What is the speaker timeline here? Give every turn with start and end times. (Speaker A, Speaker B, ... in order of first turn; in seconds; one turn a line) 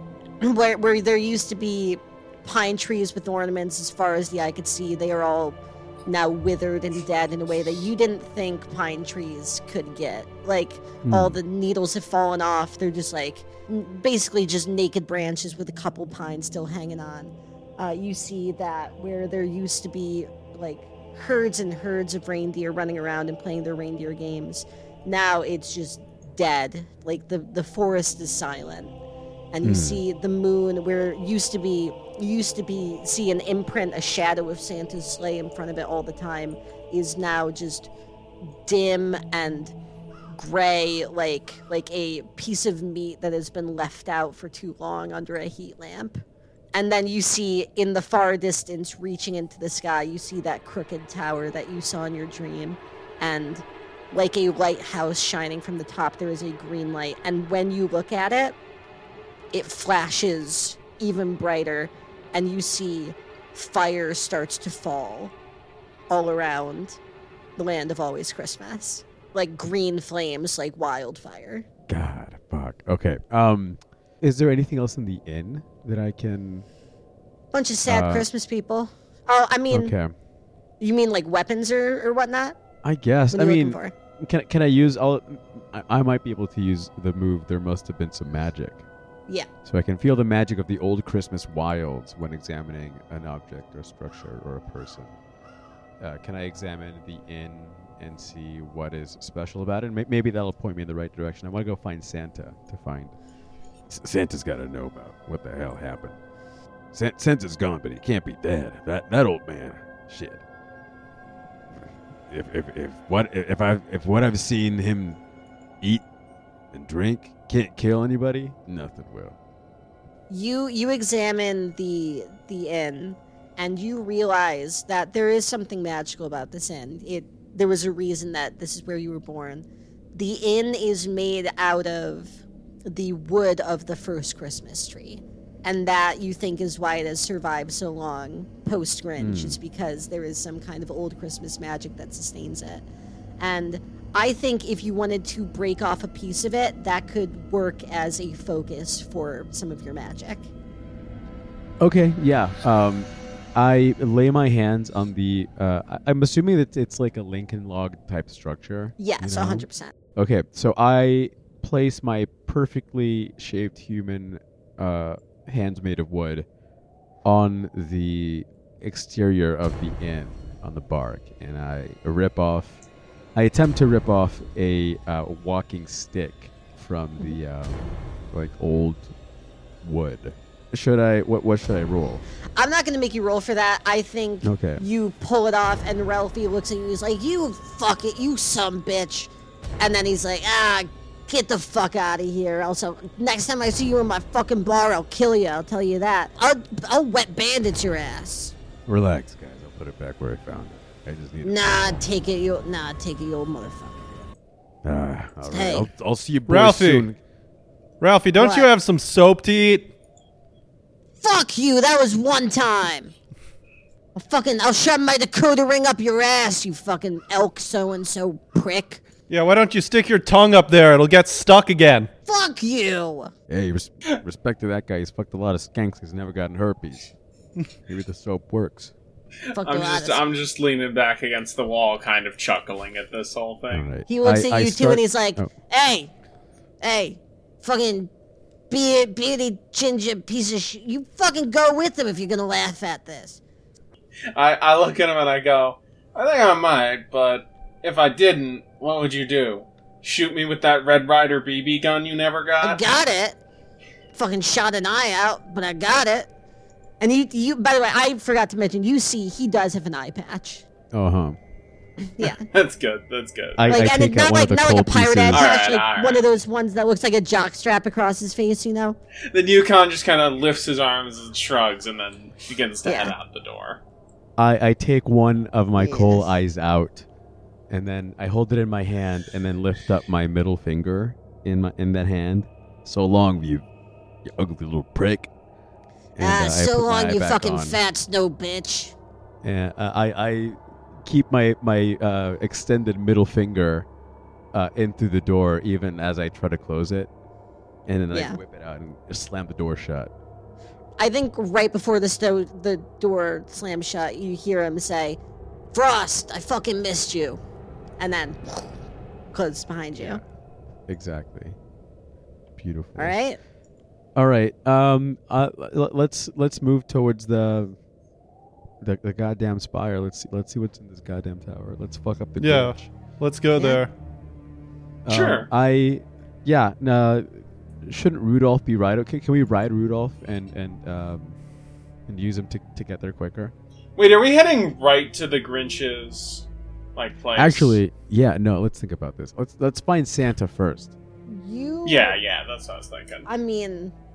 Speaker A: 0.4-28.9
Speaker B: 11.0-11.4
Speaker A: 29.5-37.9
Speaker B: 29.6-30.0
Speaker A: 38.6-39.7
Speaker A: 40.3-46.2
Speaker A: 46.7-58.6
Speaker A: 59.5-65.3
Speaker A: 66.1-67.0
Speaker A: 67.6-71.7
Speaker B: 71.9-76.7
Speaker A: 77.5-79.9
Speaker B: 77.9-78.3
Speaker B: 79.7-80.1
Speaker A: 80.8-82.6
Speaker B: 82.8-88.8
Speaker A: 83.3-83.9
Speaker B: 89.6-95.1
Speaker B: 96.0-103.1
Speaker B: 103.9-106.2
Speaker B: 106.9-110.4
Speaker B: 112.3-115.2
Speaker B: 116.7-119.4
Speaker A: 120.3-142.8
Speaker B: 139.2-139.6
Speaker A: 143.4-150.5
Speaker B: 151.8-159.6
Speaker A: 159.0-159.9
Speaker B: 160.2-166.5
Speaker B: 167.2-172.8
Speaker B: 173.3-179.1
Speaker B: 179.8-182.2
Speaker A: 182.6-198.5
Speaker B: 184.4-184.8
Speaker B: 198.9-202.0
Speaker A: 201.4-204.2
Speaker B: 204.8-207.2
Speaker A: 205.5-205.9
Speaker C: 206.5-207.1
Speaker C: 208.0-209.9
Speaker A: 208.4-208.7
Speaker A: 211.2-213.1
Speaker A: 214.2-219.0
Speaker C: 219.3-222.1
Speaker A: 222.3-223.3
Speaker B: 223.5-227.1
Speaker B: 227.9-228.9
Speaker D: 229.5-233.9
Speaker A: 229.6-230.3
Speaker B: 233.7-235.5
Speaker A: 234.1-236.1
Speaker A: 236.8-238.1
Speaker A: 238.7-243.4
Speaker D: 244.3-252.8
Speaker A: 252.6-253.4
Speaker A: 254.1-256.3
Speaker A: 257.0-260.7
Speaker B: 260.9-261.4
Speaker A: 262.2-262.4
Speaker D: 262.2-263.8
Speaker B: 263.6-265.5
Speaker A: 263.7-268.9
Speaker D: 265.3-266.2
Speaker D: 269.3-273.8
Speaker A: 272.8-273.1
Speaker B: 274.4-277.1
Speaker A: 275.7-276.3
Speaker B: 277.7-283.7
Speaker B: 284.2-285.3
Speaker B: 286.1-287.8
Speaker A: 286.2-288.9
Speaker B: 289.4-293.9
Speaker B: 294.5-297.1
Speaker B: 297.9-300.1
Speaker A: 298.1-298.4
Speaker A: 301.0-305.2
Speaker A: 305.7-307.4
Speaker A: 308.0-308.8
Speaker A: 309.3-310.2
Speaker B: 310.9-311.6
Speaker B: 312.6-313.2
Speaker A: 312.9-313.4
Speaker B: 314.1-317.8
Speaker B: 318.8-322.8
Speaker C: 322.4-323.9
Speaker A: 323.6-323.8
Speaker B: 325.1-331.4
Speaker D: 325.1-325.5
Speaker B: 332.1-333.5
Speaker D: 334.0-337.8
Speaker B: 337.4-340.9
Speaker A: 341.3-342.2
Speaker D: 341.8-343.3
Speaker A: 343.3-343.9